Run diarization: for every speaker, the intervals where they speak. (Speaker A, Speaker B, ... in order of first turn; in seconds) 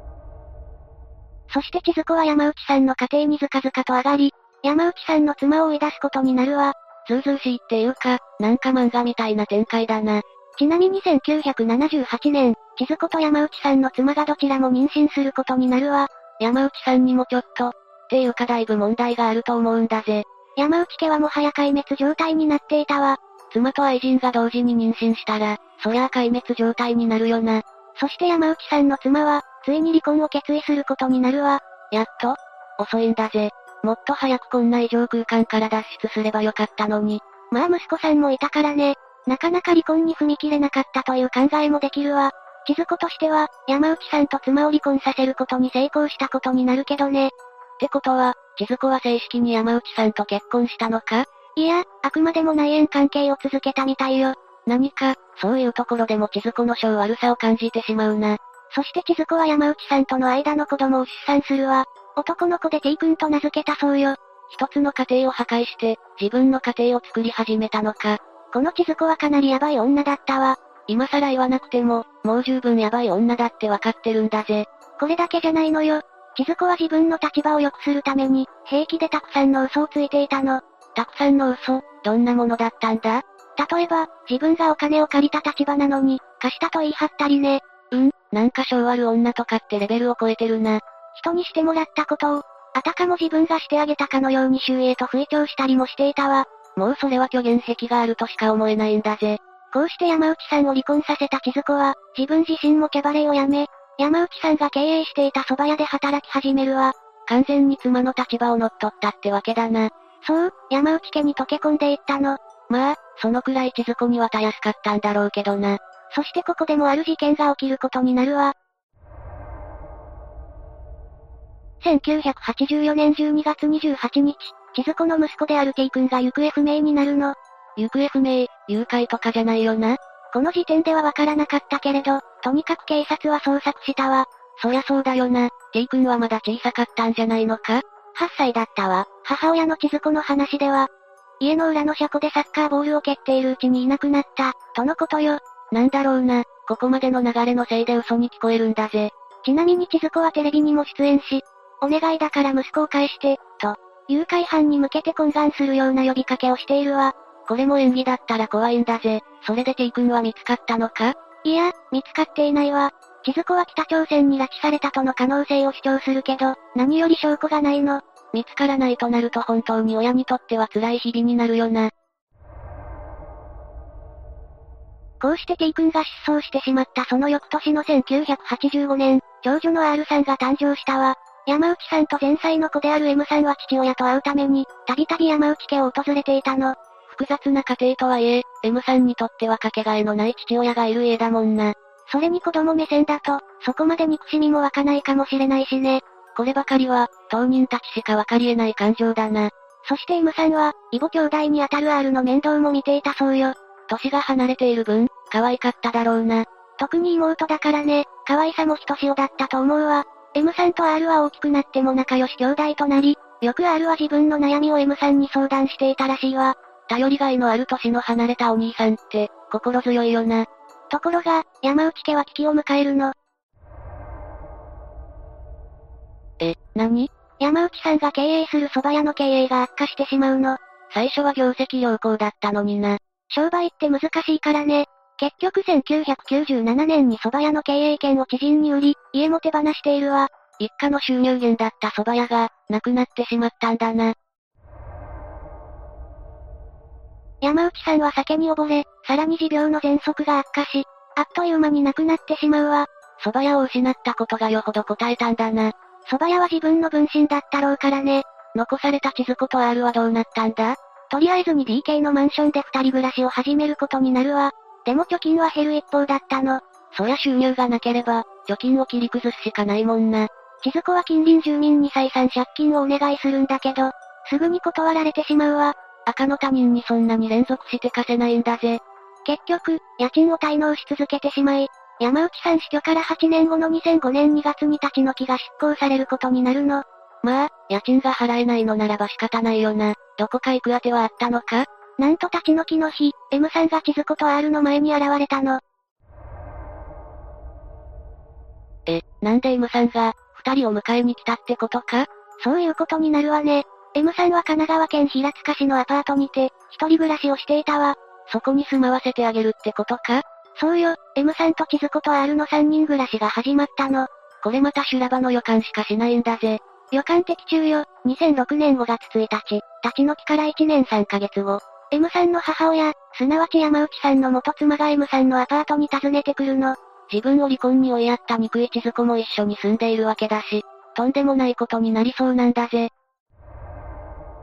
Speaker A: 1.5-118.6, 121.8-171.9, 175.2-223.1, 226.4-244.2, 247.4-295.6, 298.9-332.9